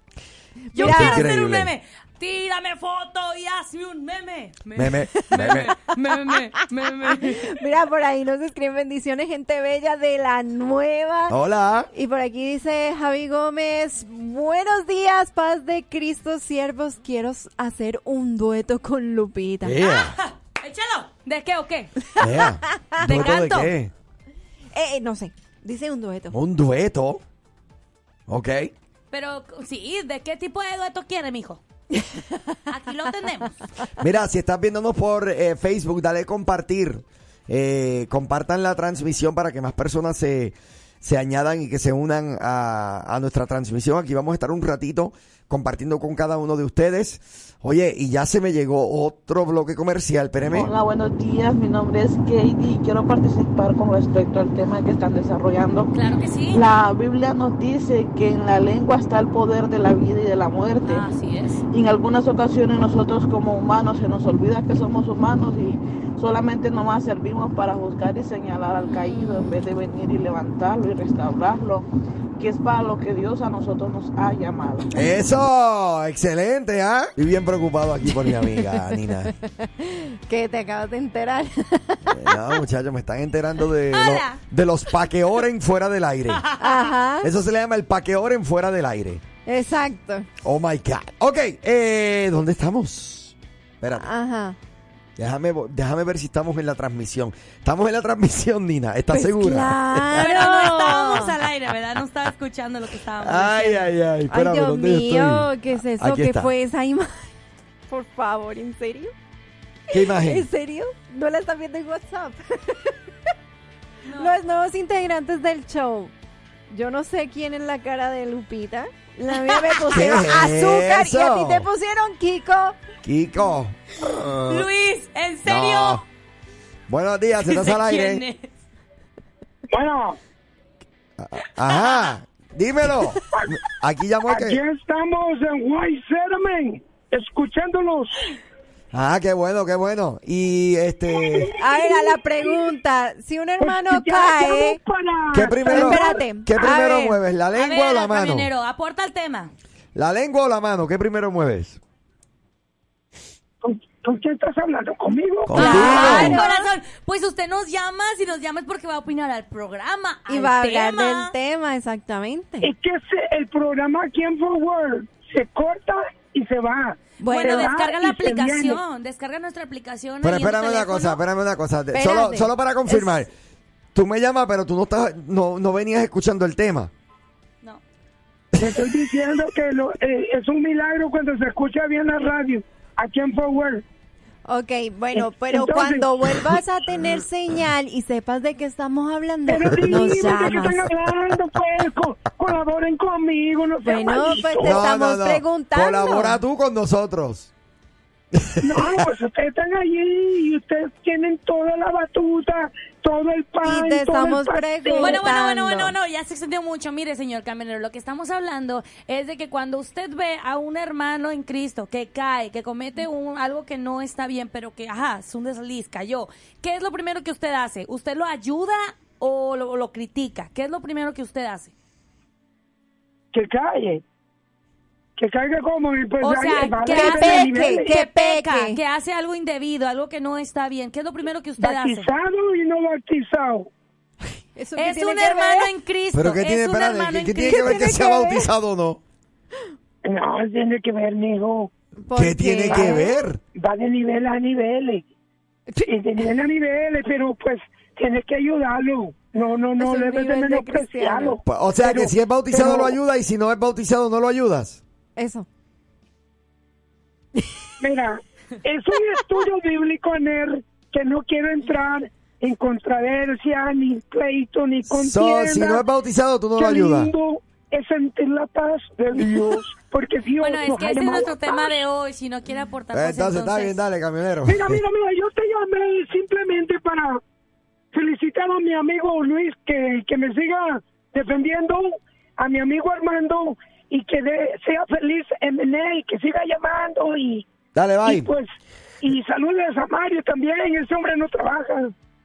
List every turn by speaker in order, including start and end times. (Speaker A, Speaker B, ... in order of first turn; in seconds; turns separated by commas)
Speaker A: 0.7-1.3, Speaker B: 0.7-7.6, Speaker C: 0.8-1.7, Speaker C: 4.7-5.7, Speaker A: 7.1-11.4, Speaker C: 11.3-11.9, Speaker A: 11.9-19.8, Speaker C: 19.6-20.2, Speaker B: 19.8-21.9, Speaker C: 22.2-23.9, Speaker A: 22.7-23.7, Speaker B: 23.0-23.6, Speaker A: 24.7-26.3, Speaker C: 26.3-27.2, Speaker C: 28.3-28.7, Speaker B: 29.1-31.6, Speaker A: 32.0-32.4, Speaker B: 32.7-33.6, Speaker C: 34.0-50.7, Speaker D: 50.5-55.9, Speaker B: 55.9-56.6, Speaker D: 56.5-61.0, Speaker B: 60.9-61.6, Speaker D: 61.7-71.8, Speaker D: 72.4-74.9, Speaker C: 74.9-79.3, Speaker A: 78.2-82.6, Speaker C: 82.1-86.5, Speaker B: 83.9-84.4, Speaker B: 86.3-86.8, Speaker A: 86.6-87.3, Speaker C: 87.2-89.2, Speaker A: 89.5-90.3, Speaker C: 90.4-94.1, Speaker A: 94.0-94.6, Speaker C: 95.2-100.7, Speaker A: 99.1-101.3, Speaker B: 100.2-103.9, Speaker C: 103.2-106.5, Speaker A: 104.3-107.3, Speaker A: 107.9-109.1, Speaker C: 109.9-110.5, Speaker A: 109.9-113.0, Speaker B: 114.0-114.3, Speaker A: 114.2-116.1, Speaker A: 116.7-122.8, Speaker B: 119.5-119.8, Speaker C: 119.9-121.7, Speaker C: 123.0-124.7, Speaker B: 124.5-126.0, Speaker C: 125.4-126.0, Speaker C: 126.9-128.2, Speaker B: 127.4-128.5, Speaker E: 129.7-130.2, Speaker C: 131.2-134.6, Speaker B: 131.7-132.1, Speaker E: 134.3-138.3, Speaker C: 138.9-141.5, Speaker E: 141.2-142.7, Speaker A: 141.6-144.8, Speaker E: 143.6-146.2, Speaker C: 145.3-148.5, Speaker A: 145.7-147.2, Speaker B: 147.5-149.5, Speaker C: 149.9-151.8, Speaker E: 153.6-156.2, Speaker C: 155.4-156.4, Speaker A: 155.6-156.7, Speaker B: 155.6-161.3, Speaker A: 160.3-162.7, Speaker E: 162.6-168.8, Speaker A: 167.2-167.7, Speaker B: 167.3-171.2, Speaker C: 170.2-173.3, Speaker A: 171.9-173.2, Speaker C: 173.9-176.9, Speaker E: 178.6-183.8, Speaker A: 184.5-190.9, Speaker E: 185.2-186.1, Speaker E: 189.5-194.8, Speaker A: 193.8-196.4, Speaker C: 194.6-197.5, Speaker C: 198.3-199.0, Speaker E: 198.6-205.2, Speaker A: 203.6-205.9, Speaker B: 205.0-221.7, Speaker E: 223.3-224.0, Speaker E: 225.2-227.9, Speaker B: 226.2-232.1, Speaker A: 226.8-228.8, Speaker E: 231.6-233.7, Speaker A: 234.6-235.7, Speaker B: 234.8-237.7, Speaker C: 236.1-239.0, Speaker A: 237.4-238.5, Speaker E: 240.0-241.7, Speaker A: 242.0-243.2, Speaker C: 242.1-243.4, Speaker E: 242.7-243.0, Speaker E: 243.5-245.0, Speaker E: 245.8-253.0, Speaker A: 249.8-251.4, Speaker C: 251.4-254.8, Speaker A: 255.2-255.4, Speaker E: 257.8-265.8, Speaker C: 264.9-267.1, Speaker E: 266.6-271.7, Speaker B: 270.4-273.8, Speaker C: 272.9-274.8, Speaker E: 274.4-277.2, Speaker E: 277.9-287.5, Speaker C: 287.7-288.3, Speaker E: 288.0-288.5, Speaker E: 289.0-291.9